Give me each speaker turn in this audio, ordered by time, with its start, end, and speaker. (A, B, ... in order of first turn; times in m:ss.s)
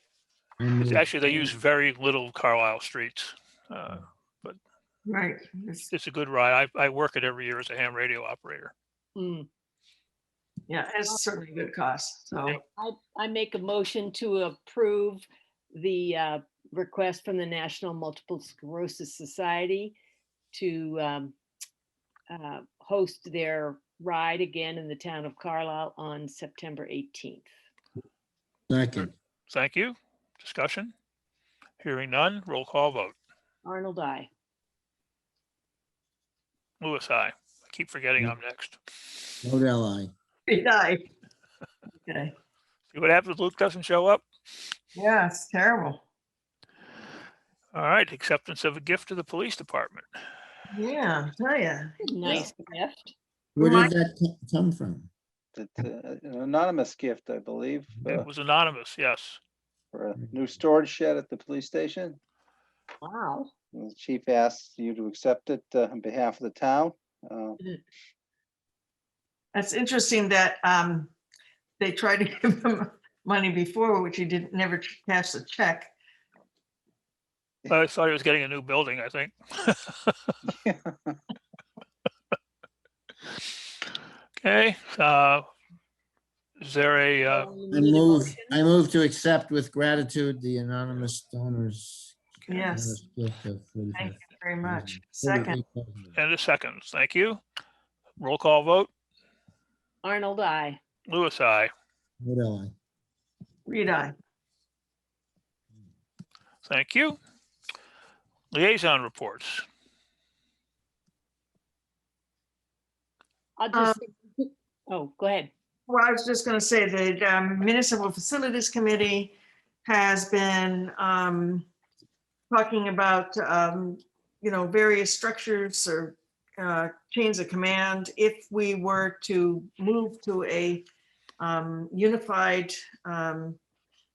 0:00.6-0:01.1 A
0:00.8-0:04.6 B
0:05.0-0:05.9 C
0:05.9-0:08.7 B
0:09.2-0:09.5 D
0:10.7-0:12.6 C
0:12.5-0:20.0 D
0:20.5-0:21.3 D
0:22.3-0:27.5 D
0:28.7-0:29.1 A
0:29.0-0:30.9 B
0:31.8-0:33.1 B
0:33.6-0:34.3 D
0:36.8-0:38.8 B
0:39.4-0:40.1 A
0:40.5-0:41.1 C
0:42.0-0:42.3 C
0:42.9-0:44.2 B
0:44.9-0:46.0 C
0:47.7-0:50.1 B
0:50.7-0:52.5 C
0:52.0-0:53.1 D
0:53.6-0:55.1 A
0:53.6-0:53.9 C
0:55.5-0:58.3 E
0:58.0-0:59.4 B
0:59.9-1:02.2 E
1:03.0-1:03.5 D
1:03.7-1:07.6 E
1:09.5-1:11.1 C
1:11.8-1:15.9 C
1:17.7-1:20.3 B
1:20.5-1:21.2 E
1:24.4-1:25.5 B
1:26.6-1:27.5 B
1:27.3-1:28.5 D
1:27.7-1:36.1 A
1:32.5-1:33.0 C
1:33.9-1:35.6 C
1:36.1-1:37.4 B
1:38.2-1:38.9 B
1:40.0-1:40.8 D
1:41.0-1:41.7 B
1:42.2-1:42.7 A
1:43.7-1:44.1 C
1:46.6-1:47.2 B
1:48.5-1:49.6 B
1:53.6-1:55.5 D
1:53.7-1:54.0 C
1:55.9-1:59.3 C
1:59.8-2:01.6 C
2:02.5-2:10.8 C
2:11.4-2:13.6 C